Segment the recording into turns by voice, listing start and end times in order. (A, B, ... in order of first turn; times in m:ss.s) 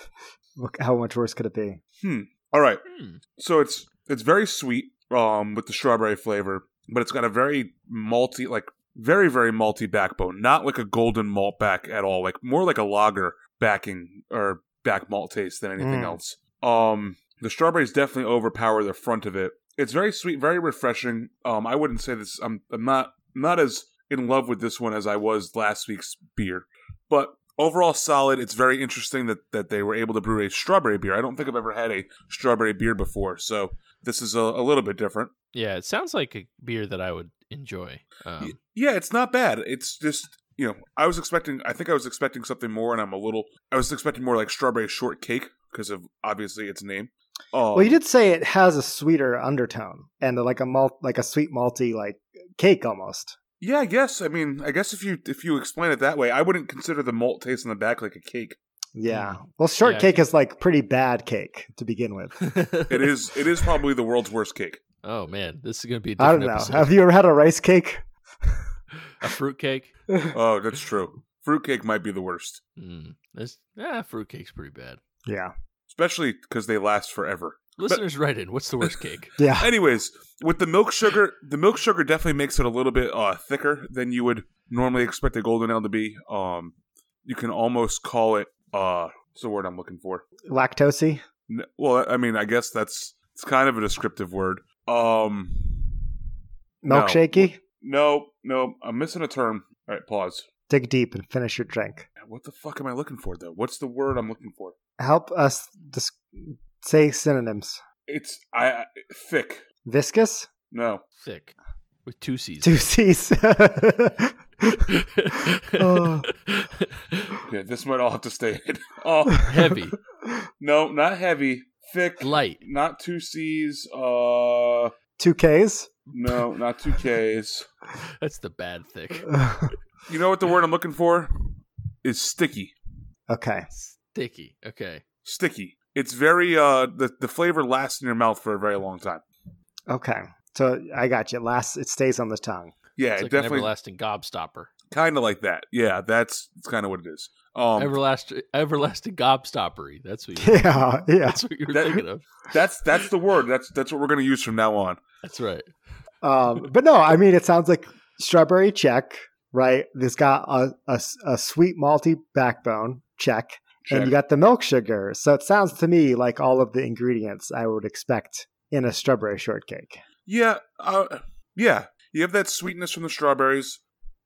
0:00.6-0:01.8 A
0:02.0-0:02.8 B
0:02.8-0:03.2 C
0:03.4-0:35.3 B
0:15.8-0:16.2 A
0:35.5-0:38.6 C
0:38.4-0:48.0 B
0:47.7-0:53.4 A
0:53.6-0:58.6 B
0:59.0-1:02.6 A
0:59.1-1:00.2 C
1:02.4-1:02.9 C
1:02.9-1:04.8 B
1:05.0-1:06.9 C
1:06.2-1:08.6 A
1:09.2-1:09.9 C
1:10.3-1:12.6 B
1:12.8-1:15.0 C
1:15.2-1:15.5 A
1:15.9-1:18.0 B
1:17.8-1:19.3 C
1:19.4-1:19.7 A
1:19.6-1:26.7 B
1:27.2-1:30.2 B
1:30.5-1:31.2 A
1:31.5-1:36.0 B
1:36.8-1:37.6 A
1:36.9-1:40.4 B
1:40.7-1:42.0 A
1:42.2-1:44.7 B
1:45.0-1:47.8 A
1:48.1-1:49.6 B
1:49.8-1:50.5 A
1:50.7-1:51.0 B
1:51.2-1:52.9 C
1:52.6-1:54.8 A
1:54.7-1:57.4 C
1:55.8-1:56.3 A
1:57.4-1:59.7 B
1:59.4-2:00.0 C
2:00.6-2:04.9 B
2:02.2-2:02.6 C
2:05.2-2:06.1 A
2:06.1-2:07.7 B
2:08.2-2:09.3 C
2:09.3-2:09.7 A
2:10.1-2:12.7 B
2:13.3-2:13.7 A
2:13.7-2:15.0 C
2:15.2-2:19.2 B
2:19.9-2:22.7 A
2:23.0-2:23.7 B
2:23.2-2:24.7 C
2:24.9-2:27.9 B
2:27.8-2:32.3 C
2:30.4-2:31.4 A
2:31.7-2:35.0 B
2:35.2-2:35.7 C
2:36.2-2:50.0 A
2:43.8-2:44.2 B
2:50.2-2:53.8 B